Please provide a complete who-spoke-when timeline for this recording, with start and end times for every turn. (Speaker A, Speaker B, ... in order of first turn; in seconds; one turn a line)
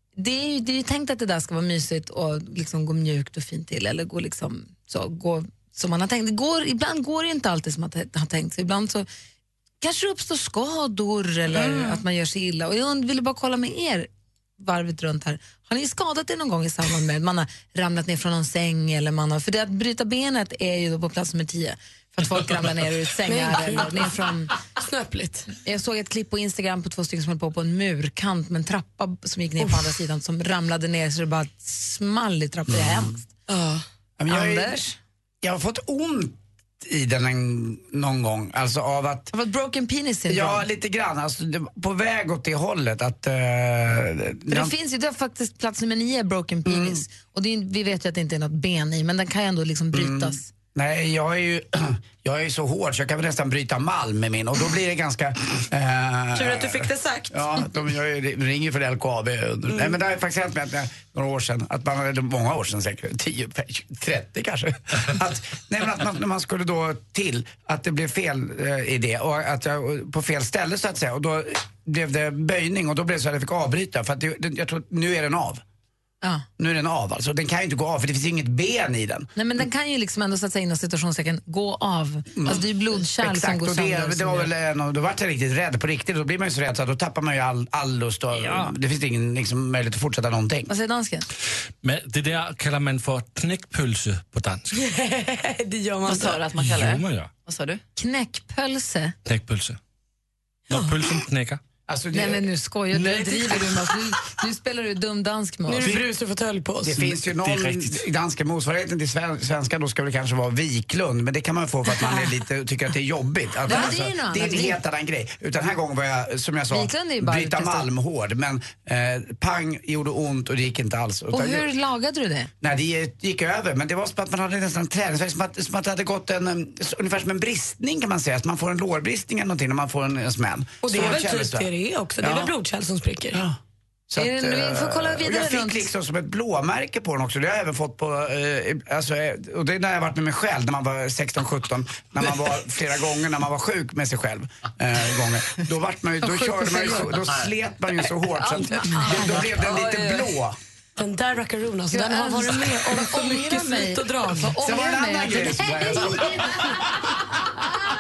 Speaker A: 0.2-9.1
Speaker A: 9.8-24.5
Speaker B: 11.5-12.0
Speaker C: 23.3-24.1
Speaker C: 24.8-25.5
Speaker A: 25.5-33.3
Speaker C: 29.6-29.9
Speaker D: 32.7-33.1
Speaker C: 33.5-33.9
Speaker D: 34.2-34.8
Speaker A: 34.3-35.0
Speaker D: 35.4-39.3
Speaker A: 39.3-40.7
Speaker D: 40.3-44.7
Speaker A: 44.5-50.5
Speaker D: 46.6-47.0
Speaker D: 49.9-75.6
Speaker C: 56.4-57.7
Speaker D: 76.6-79.3
Speaker A: 79.4-84.5
Speaker D: 82.3-90.7
Speaker A: 88.4-88.7
Speaker A: 90.7-91.3
Speaker E: 91.8-94.8
Speaker C: 94.8-96.5
Speaker B: 96.0-97.8
Speaker E: 96.6-97.3
Speaker A: 98.0-99.2
Speaker E: 99.3-99.8
Speaker C: 100.7-101.2
Speaker E: 100.7-101.6
Speaker D: 101.9-102.5
Speaker A: 102.1-106.0
Speaker D: 103.1-103.7
Speaker C: 105.7-107.1
Speaker D: 106.8-121.7
Speaker E: 107.4-108.0
Speaker A: 113.7-114.8
Speaker A: 116.7-117.9
Speaker A: 121.3-122.5
Speaker D: 122.6-131.7
Speaker C: 130.8-133.4
Speaker D: 132.2-132.5
Speaker D: 133.3-133.6
Speaker D: 134.1-150.6
Speaker A: 134.2-135.9
Speaker A: 146.2-147.2
Speaker C: 148.6-150.2
Speaker C: 151.0-154.6
Speaker A: 151.9-156.9
Speaker D: 154.6-156.8